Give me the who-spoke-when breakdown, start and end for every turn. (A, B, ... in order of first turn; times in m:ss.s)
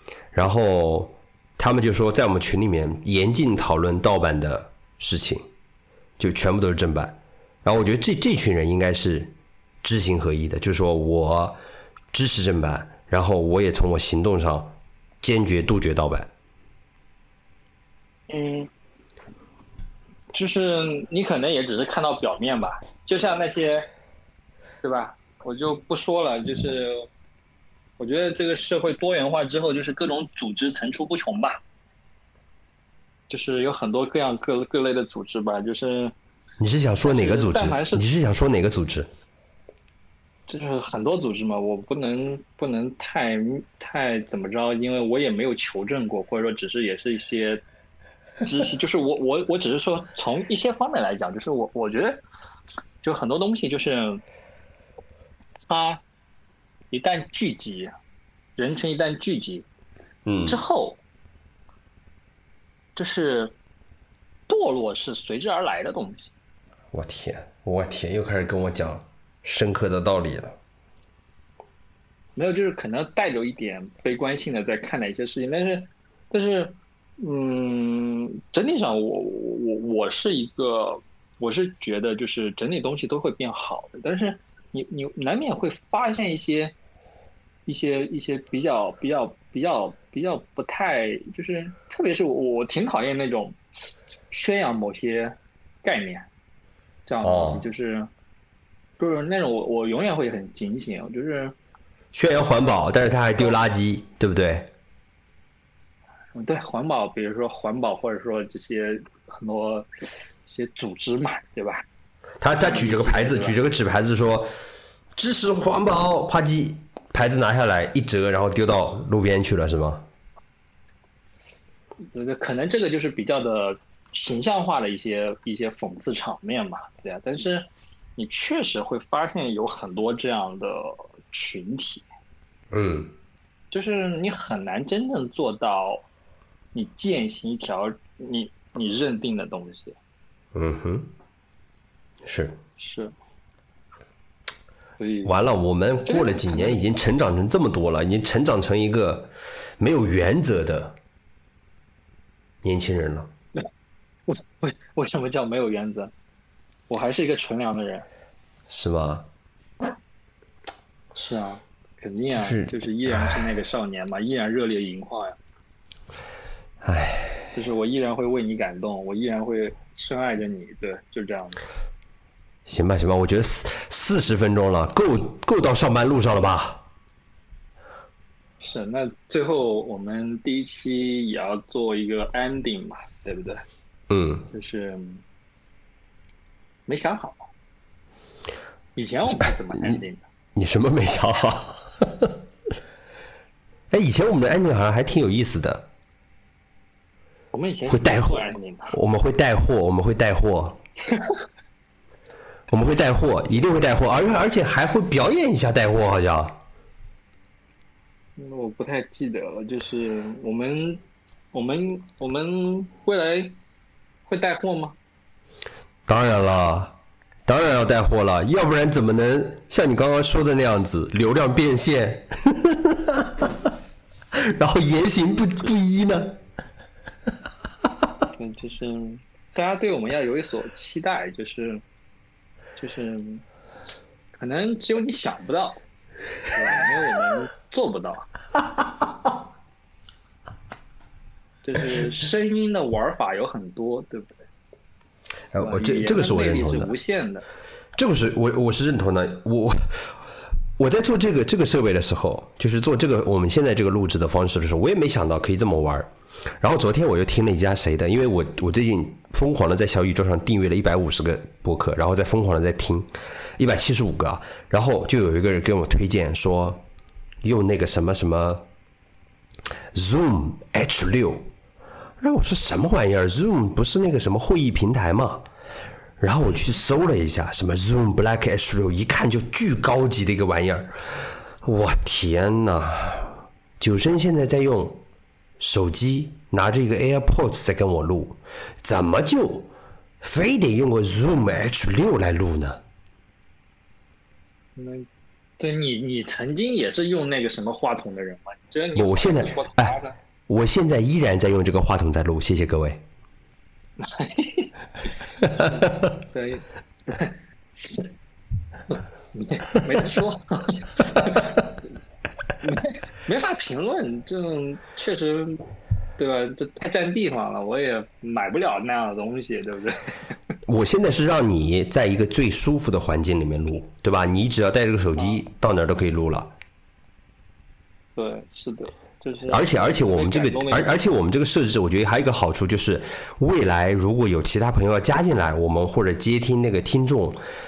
0:00.3-0:05.4 A
0:06.2-0:11.6 A
0:12.1-0:16.3 A
0:18.3-0:18.7 B
0:20.3-0:23.9 B
0:24.8-0:27.1 B
0:28.0-0:31.6 B
0:33.3-0:36.1 B
0:36.6-0:39.1 A
0:37.0-0:38.1 B
0:40.5-0:47.6 B
0:48.4-0:52.2 B
0:53.0-0:54.2 B
0:55.7-0:56.0 B
0:56.9-0:57.9 B
0:58.6-0:59.7 B
1:00.2-1:00.6 A
1:00.4-1:01.0 B
1:03.0-1:03.5 B
1:04.5-1:06.3 B
1:06.9-1:10.6 A
1:12.4-1:26.7 B
1:27.7-1:33.6 B
1:34.3-1:36.3 B
1:37.1-1:38.1 B
1:37.2-1:37.7 A
1:39.0-1:41.6 B
1:42.1-1:44.7 A
1:46.3-1:51.9 B
1:52.4-1:54.5 A
1:52.5-1:53.6 B
1:55.2-2:00.1 A
2:02.1-2:12.1 B
2:12.7-2:13.1 A
2:13.7-2:16.0 B
2:16.7-2:20.0 B
2:20.5-2:21.1 A
2:22.2-2:22.6 A
2:22.8-2:23.1 B
2:25.0-2:25.3 B
2:25.2-2:31.0 A
2:26.0-2:26.8 B
2:32.6-2:33.3 A
2:34.3-2:36.1 B
2:36.9-2:38.1 B
2:38.7-2:39.3 A
2:41.2-2:45.4 B
2:42.4-2:43.5 A
2:46.8-2:47.5 A
2:47.5-2:51.6 B
2:52.7-2:56.8 A
2:58.6-3:03.6 B
3:04.1-3:04.5 A
3:04.5-3:05.2 B
3:06.9-3:07.5 B
3:09.0-3:10.2 B
3:10.6-3:12.4 A
3:13.9-3:15.9 A
3:17.5-3:19.0 B
3:17.9-3:20.8 A
3:21.1-3:21.4 B
3:22.7-3:26.6 A
3:28.4-3:31.0 B
3:31.5-3:33.6 B
3:34.3-3:35.0 B
3:36.1-3:37.0 A
3:37.5-3:43.5 A
3:44.3-3:46.4 A
3:48.4-3:51.8 B
3:52.8-3:53.4 B
3:54.4-3:55.8 B
3:56.5-3:58.3 B
4:01.6-4:04.4 B
4:05.5-4:06.9 A
4:05.6-4:07.4 B
4:08.0-4:10.2 A
4:10.8-4:26.8 A
4:27.4-4:28.6 A
4:29.9-4:31.5 A
4:32.2-4:35.4 A
4:36.2-4:40.9 A
4:36.5-4:36.8 B
4:41.6-4:45.0 A
4:45.6-4:49.7 A
4:50.2-4:52.8 A
4:54.8-4:55.1 B
4:55.6-5:00.2 B
4:59.0-5:00.0 A
5:00.5-5:03.0 A
5:04.0-5:04.7 B
5:05.4-5:06.1 A
5:05.6-5:08.1 B
5:08.9-5:11.6 B
5:12.6-5:15.6 B
5:16.2-5:20.1 B
5:20.7-5:26.5 A
5:28.2-5:31.0 B
5:29.5-5:37.4 A